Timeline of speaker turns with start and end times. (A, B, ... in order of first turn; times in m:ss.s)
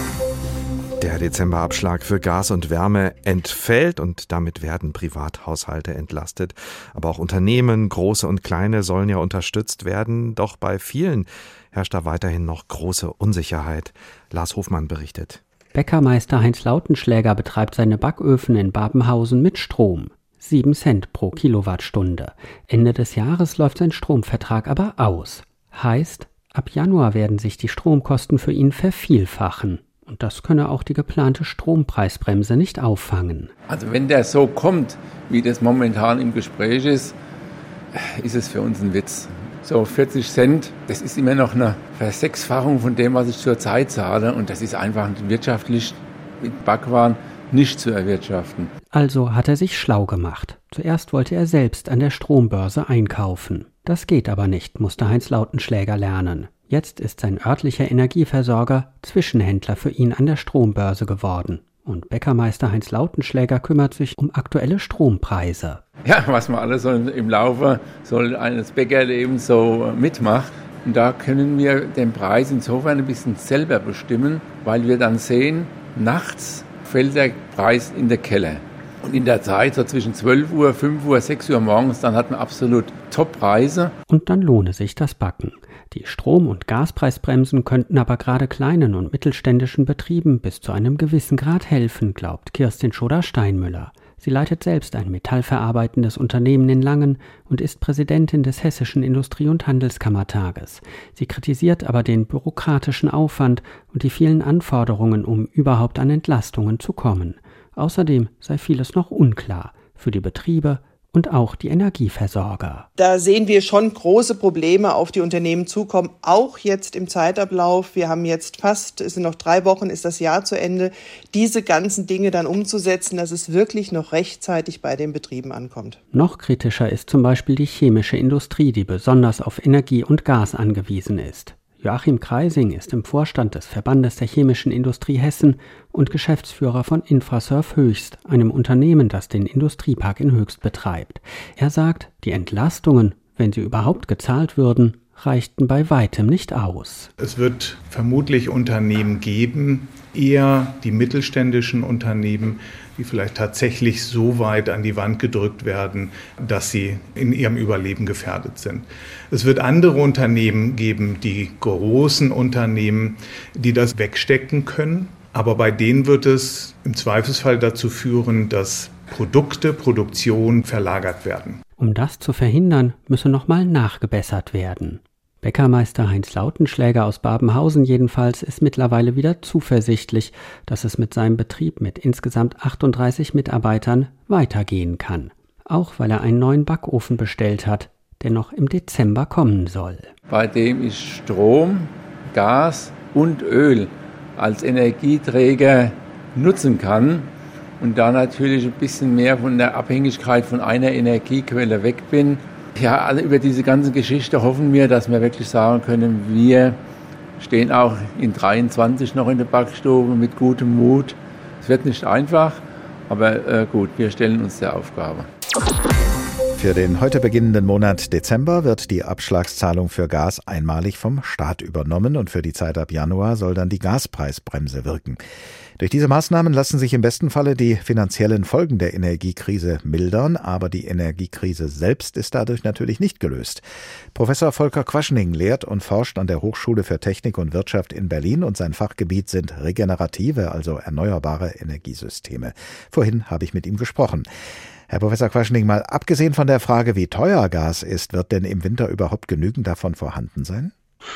0:01.0-0:15.4 A
0:15.7-0:33.5 B
0:33.7-0:37.2 C
0:37.9-0:48.7 C
0:48.9-1:05.8 B
1:06.0-1:23.9 C
1:24.1-1:52.9 B
1:53.0-2:06.0 D
2:06.1-2:27.1 B
2:27.2-2:51.6 E
2:51.8-3:10.1 B
3:10.3-3:26.8 C
3:27.4-3:35.3 C
3:36.6-3:45.2 F
3:45.8-3:53.6 F
3:54.1-4:04.3 F
4:04.9-4:10.7 F